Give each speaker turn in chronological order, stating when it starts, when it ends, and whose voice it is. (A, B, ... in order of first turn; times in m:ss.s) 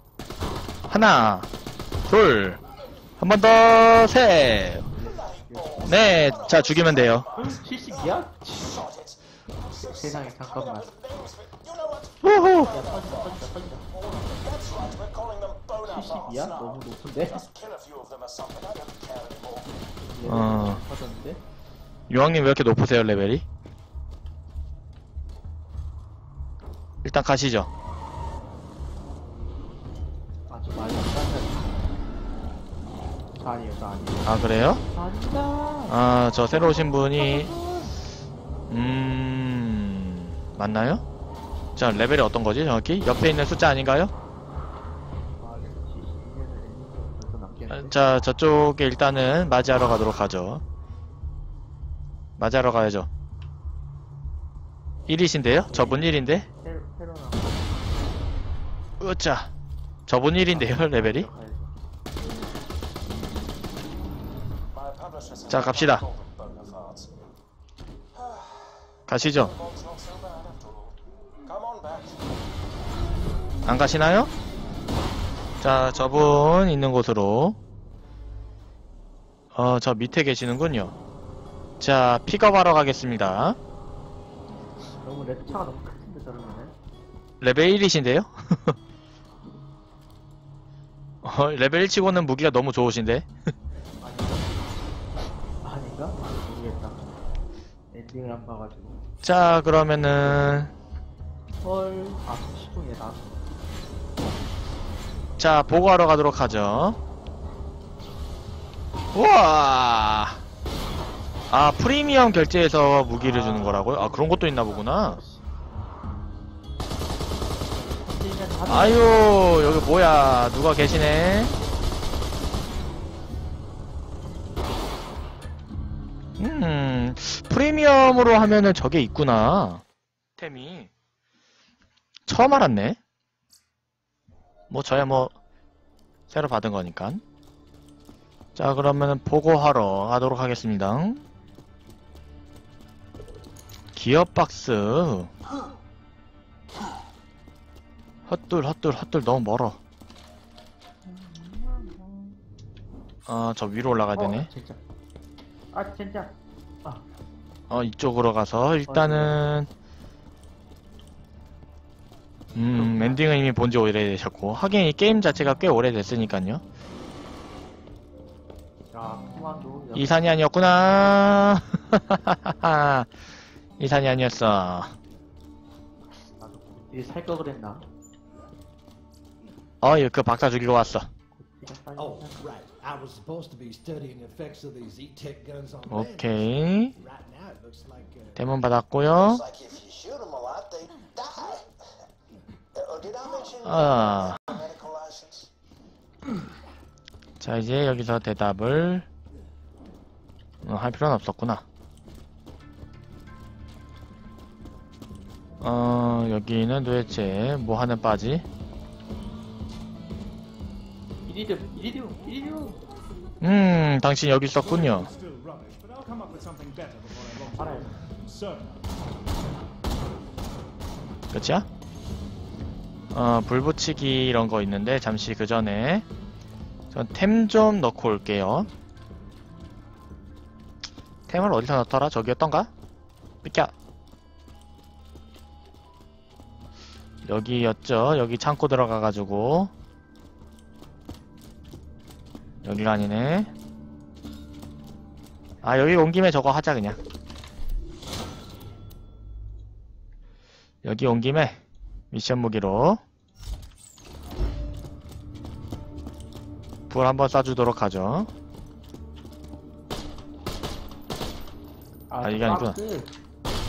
0:00.9-0:01.5 A
0:02.0-0:02.6 A
0:03.2-0:04.8 A
0:04.8-0:06.4 B
0:04.8-0:19.8 C
0:05.8-0:07.2 A
0:07.3-0:08.8 B
0:09.8-0:10.9 B
0:12.2-0:12.8 A
0:12.7-0:13.8 B
0:15.8-0:17.4 B
0:20.0-0:21.4 B
0:20.2-0:20.8 A
0:22.1-0:23.4 A
0:27.0-0:27.7 A
0:30.5-0:31.8 B
0:33.4-0:36.0 B
0:34.2-0:34.8 A
0:35.9-0:37.5 A
0:36.5-0:38.0 B
0:38.7-0:41.0 A
0:41.8-0:44.1 A
0:45.4-0:48.0 B
0:47.7-0:50.6 A
0:52.4-0:53.1 A
0:55.1-0:56.5 A
0:55.7-0:58.0 B
0:59.0-0:59.5 A
1:00.1-1:01.3 A
1:00.5-1:01.7 B
1:04.7-1:07.1 C
1:05.5-1:06.0 A
1:08.1-1:12.2 C
1:09.1-1:09.5 A
1:13.6-1:14.3 A
1:15.6-1:17.6 A
1:19.5-1:20.9 A
1:21.8-1:23.6 A
1:25.0-1:26.7 B
1:27.4-1:28.8 A
1:31.2-1:33.2 A
1:34.0-1:34.8 B
1:35.6-1:37.0 B
1:37.9-1:39.0 B
1:39.2-1:40.7 A
1:41.6-1:43.4 B
1:45.4-1:47.0 A
1:49.1-1:50.4 A
1:51.5-1:55.2 A
1:53.2-1:55.4 B
1:57.9-1:59.7 B
1:58.7-2:01.5 A
2:06.4-2:09.8 A
2:10.4-2:10.9 A
2:12.3-2:13.0 A
2:14.7-2:15.3 A
2:16.3-2:17.2 A
2:18.6-2:21.2 A
2:23.9-2:25.3 A
2:28.3-2:29.8 A
2:31.0-2:32.4 B
2:33.3-2:34.5 A
2:34.1-2:34.8 B
2:35.7-2:37.0 B
2:37.7-2:39.7 A
2:38.9-2:39.5 B
2:42.5-2:46.6 A
2:42.7-2:43.2 B
2:48.9-2:50.2 B
2:49.9-2:53.1 A
2:53.8-2:55.0 A
2:56.2-2:57.8 B
2:59.8-3:01.1 A
3:01.4-3:02.4 B
3:02.0-3:08.5 D
3:05.8-3:06.9 A
3:08.4-3:09.4 A
3:09.2-3:11.7 C
3:12.7-3:15.5 C
3:13.6-3:14.4 A
3:17.4-3:19.1 A
3:20.6-3:21.6 A
3:25.6-3:28.4 A
3:31.2-3:32.8 B
3:33.4-3:35.1 A
3:34.5-3:38.8 D
3:37.5-3:38.0 B
3:41.3-3:41.7 A
3:43.1-3:46.0 A
3:46.9-3:48.7 A
3:51.3-3:52.7 A
3:53.4-3:53.7 A
3:57.2-3:59.7 A
4:02.6-4:03.5 A
4:05.6-4:07.0 A
4:10.8-4:11.6 A
4:12.1-4:13.0 A
4:16.9-4:18.3 A
4:22.1-4:23.1 B
4:22.2-4:22.8 A